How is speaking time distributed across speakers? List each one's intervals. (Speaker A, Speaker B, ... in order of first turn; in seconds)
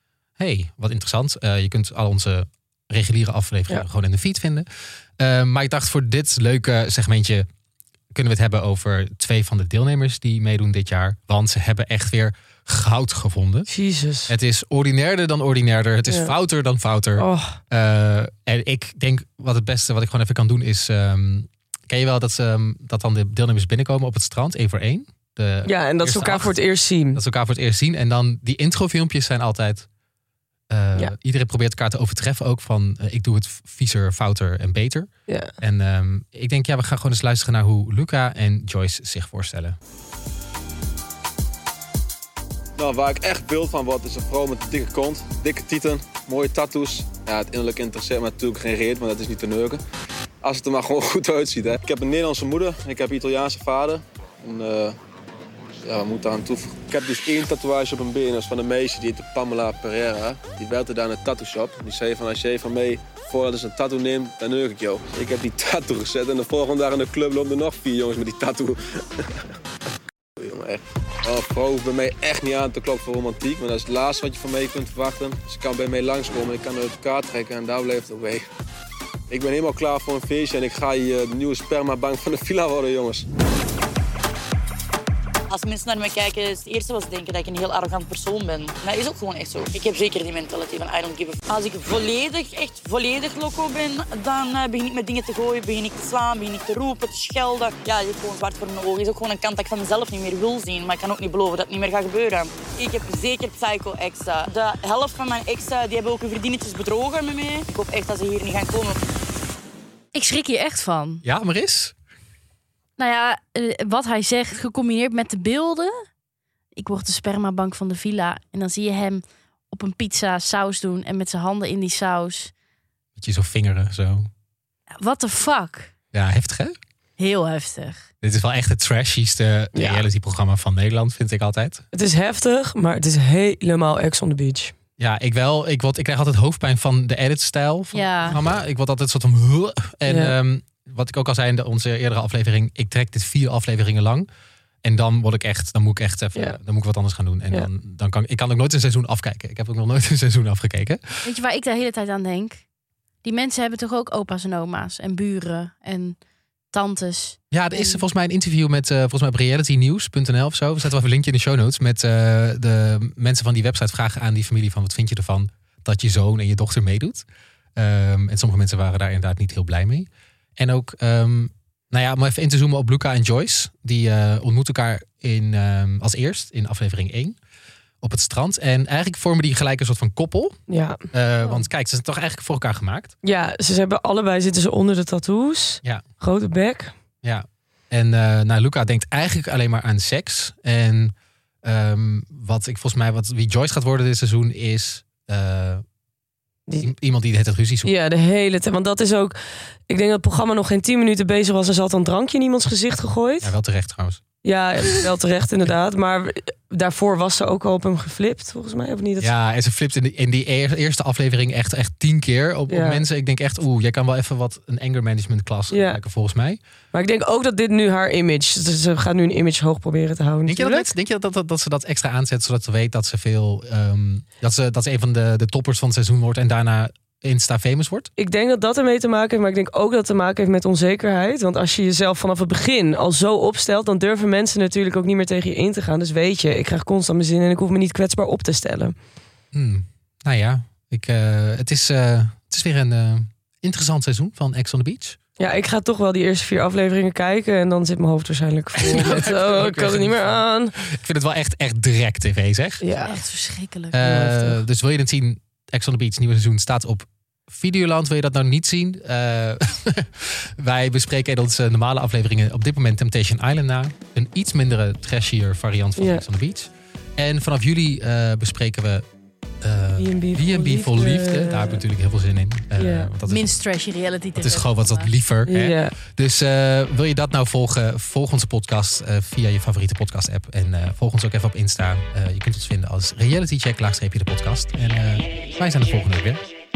Speaker A: 0.4-4.7, 5.2-7.4, 8.1-13.7, 14.3-26.6, 27.1-29.9, 30.7-39.8, 111.2-111.9, 123.2-124.3, 126.1-126.7, 128.2-131.8, 135.0-144.3, 144.8-151.3, 157.5-177.3, 178.0-180.6, 181.1-183.1, 187.2-195.8, 196.8-197.9, 203.4-204.2, 209.2-216.6, 220.5-228.1, 239.5-245.2, 248.8-252.8, 253.9-269.0, 269.6-273.5, 274.4-286.4
Speaker B: 13.7-14.3, 16.1-16.3, 17.1-17.6, 25.6-27.2, 35.3-35.5, 129.7-130.1, 131.9-134.7, 140.1-140.3, 180.7-181.1, 183.2-186.9, 197.8-199.3, 199.9-203.5, 204.4-209.3, 212.7-213.0, 215.7-216.0, 216.9-220.9, 228.2-238.9, 245.4-250.8, 252.8-253.2, 254.0-254.6, 265.9-266.2, 269.9-271.8, 272.8-273.1, 275.4-276.0
Speaker C: 42.8-49.8, 50.4-55.0, 55.8-69.4, 70.4-78.4, 79.3-83.2
Speaker D: 85.5-109.0
Speaker E: 110.1-111.2, 113.0-115.9, 116.7-122.5, 125.0-125.9, 127.2-128.0, 137.9-138.4, 151.2-152.6, 153.2-156.2, 156.7-158.0, 253.1-253.9, 273.2-275.1